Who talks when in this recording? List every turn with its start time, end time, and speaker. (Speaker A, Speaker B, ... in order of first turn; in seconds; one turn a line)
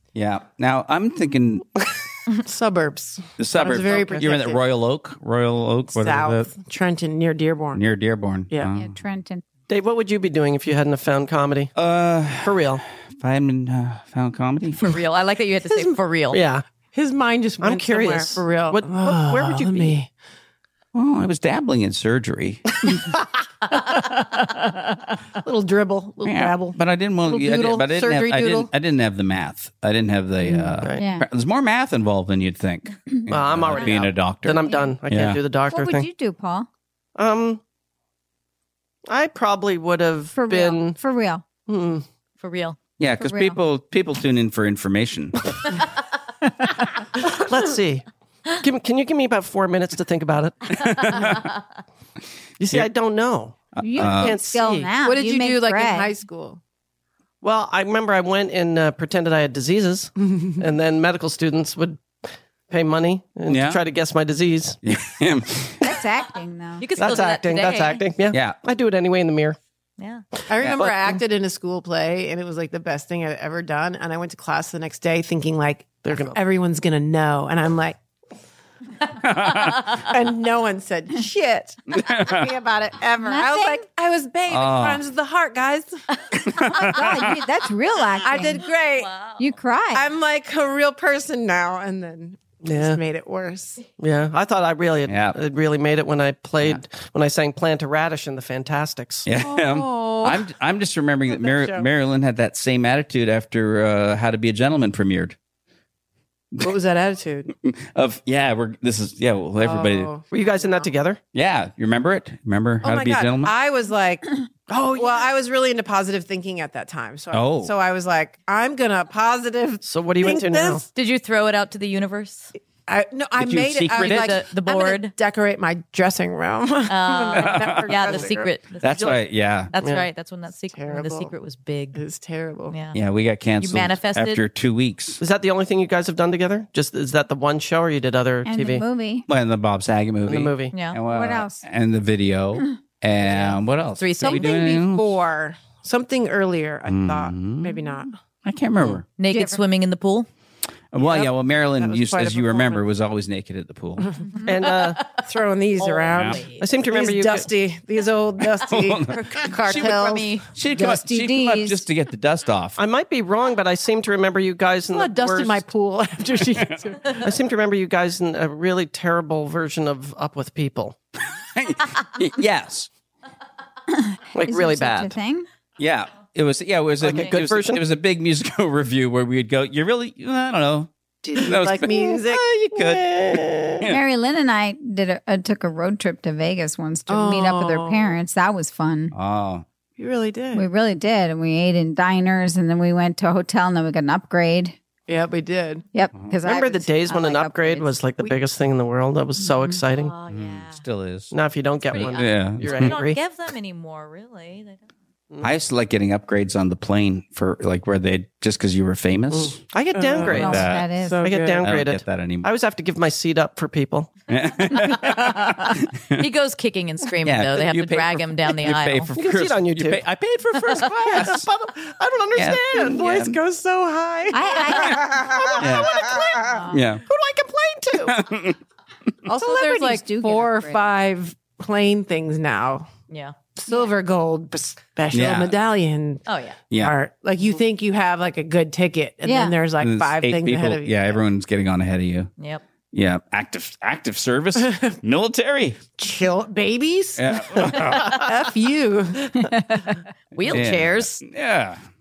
Speaker A: 0.1-1.6
Speaker B: 2.3-4.6
Speaker A: 3.4-6.5
Speaker B: 5.9-7.8
Speaker A: 7.7-8.9
Speaker C: 8.7-9.4
Speaker D: 9.7-11.7
Speaker A: 11.8-12.7
Speaker D: 12.4-12.8
Speaker A: 13.2-15.0
Speaker E: 14.8-16.4
Speaker D: 16.3-16.6
Speaker B: 16.9-20.1
Speaker D: 17.6-19.9
Speaker A: 20.9-23.0
Speaker B: 23.7-24.7
Speaker B: 25.4-28.7
Speaker A: 26.2-35.4
Speaker D: 30.8-31.0
Speaker C: 30.9-31.3
Speaker C: 33.1-34.0
Speaker D: 33.3-36.1
Speaker C: 34.6-34.9
Speaker C: 35.7-36.7
Speaker D: 37.1-37.6
Speaker D: 39.1-41.0
Speaker C: 40.3-41.4
Speaker D: 41.7-42.0
Speaker E: 42.4-42.8
Speaker A: 43.0-45.4
Speaker C: 43.2-43.6
Speaker D: 47.2-48.1
Speaker D: 48.6-51.4
Speaker A: 50.8-51.5
Speaker E: 51.2-51.5
Speaker D: 52.6-54.9
Speaker A: 53.7-54.4
Speaker C: 53.8-56.1
Speaker B: 55.0-56.6
Speaker D: 57.4-62.0
Speaker D: 62.7-64.8
Speaker A: 63.5-63.8
Speaker A: 64.8-65.8
Speaker C: 65.8-66.8
Speaker E: 66.8-68.0
Speaker D: 67.0-69.6
Speaker A: 68.3-68.6
Speaker E: 70.0-70.2
Speaker B: 70.5-78.0
Speaker D: 70.8-71.2
Speaker D: 76.0-76.4
Speaker A: 79.1-80.0
Speaker B: 79.9-86.0
Speaker A: 81.9-82.5
Speaker C: 83.2-83.8
Speaker A: 84.5-85.0
Speaker A: 86.5-87.4
Speaker C: 86.5-88.6
Speaker B: 88.2-89.1
Speaker E: 89.0-89.4
Speaker C: 89.4-90.1
Speaker B: 89.9-93.8
Speaker D: 92.6-93.0
Speaker D: 94.0-99.3
Speaker A: 95.0-95.4
Speaker A: 99.2-105.3
Speaker B: 99.4-100.5
Speaker B: 101.3-101.9
Speaker B: 106.6-107.5
Speaker A: 107.5-110.2
Speaker B: 109.6-110.9
Speaker D: 110.3-111.2
Speaker A: 111.3-113.5
Speaker B: 112.8-120.8
Speaker A: 117.3-117.7
Speaker D: 119.8-120.8
Speaker E: 120.9-122.5
Speaker B: 122.9-128.5
Speaker A: 123.4-124.4
Speaker E: 124.0-125.1
Speaker E: 126.9-129.2
Speaker A: 127.3-128.2
Speaker A: 128.8-129.7
Speaker E: 129.7-132.0
Speaker D: 129.8-130.1
Speaker B: 130.7-131.3
Speaker B: 131.9-132.8
Speaker E: 132.7-133.0
Speaker A: 132.9-135.2
Speaker E: 133.6-134.4
Speaker D: 135.2-138.8
Speaker C: 138.4-139.3
Speaker A: 139.3-145.2
Speaker D: 140.2-140.7
Speaker E: 140.7-141.0
Speaker C: 141.1-141.6
Speaker E: 143.2-144.8
Speaker B: 144.2-148.1
Speaker A: 146.8-147.8
Speaker A: 148.4-149.1
Speaker E: 149.2-150.3
Speaker C: 149.2-149.6
Speaker A: 150.9-154.1
Speaker B: 151.0-152.8
Speaker B: 154.0-154.3
Speaker D: 154.4-155.0
Speaker E: 154.7-155.2
Speaker B: 155.2-160.5
Speaker E: 155.8-156.7
Speaker A: 156.1-156.4
Speaker D: 156.4-157.4
Speaker A: 158.6-162.8
Speaker E: 159.5-160.4
Speaker C: 160.7-161.8
Speaker D: 162.8-165.6
Speaker B: 164.9-167.3
Speaker D: 167.2-170.9
Speaker A: 171.4-172.9
Speaker C: 173.9-175.4
Speaker D: 174.3-175.1
Speaker A: 175.8-184.0
Speaker D: 177.0-177.8
Speaker B: 181.2-182.4
Speaker D: 182.3-183.9
Speaker C: 183.8-189.1
Speaker B: 187.1-188.2
Speaker A: 189.1-189.6
Speaker B: 190.0-190.7
Speaker C: 190.5-194.8
Speaker B: 195.1-195.8
Speaker C: 195.9-198.4
Speaker D: 196.4-200.1
Speaker C: 199.4-199.8
Speaker E: 199.9-200.8
Speaker A: 200.3-201.3
Speaker D: 201.3-203.2
Speaker A: 201.9-202.9
Speaker E: 201.9-204.8
Speaker A: 205.4-209.6
Speaker D: 209.3-210.7
Speaker B: 209.9-211.6
Speaker C: 210.2-211.3
Speaker A: 210.2-210.9
Speaker D: 211.2-214.2
Speaker A: 211.6-212.5
Speaker A: 214.3-216.2
Speaker E: 216.2-219.1
Speaker A: 217.2-221.5
Speaker D: 219.1-220.0
Speaker D: 220.7-223.2
Speaker A: 222.3-223.3
Speaker B: 222.8-228.2
Speaker C: 224.3-225.2
Speaker A: 225.6-225.9
Speaker C: 226.4-226.8
Speaker A: 226.7-227.0
Speaker A: 228.1-228.6
Speaker B: 229.2-232.9
Speaker C: 229.4-230.8
Speaker E: 233.1-233.3
Speaker B: 233.6-236.2
Speaker A: 235.1-235.5
Speaker E: 236.2-236.6
Speaker A: 236.7-236.9
Speaker B: 236.8-241.1
Speaker C: 239.2-239.6
Speaker A: 239.8-242.3
Speaker A: 242.9-245.8
Speaker B: 244.6-245.0
Speaker B: 246.0-249.5
Speaker A: 247.2-248.3
Speaker C: 249.4-250.0
Speaker E: 250.3-251.2
Speaker A: 250.5-251.8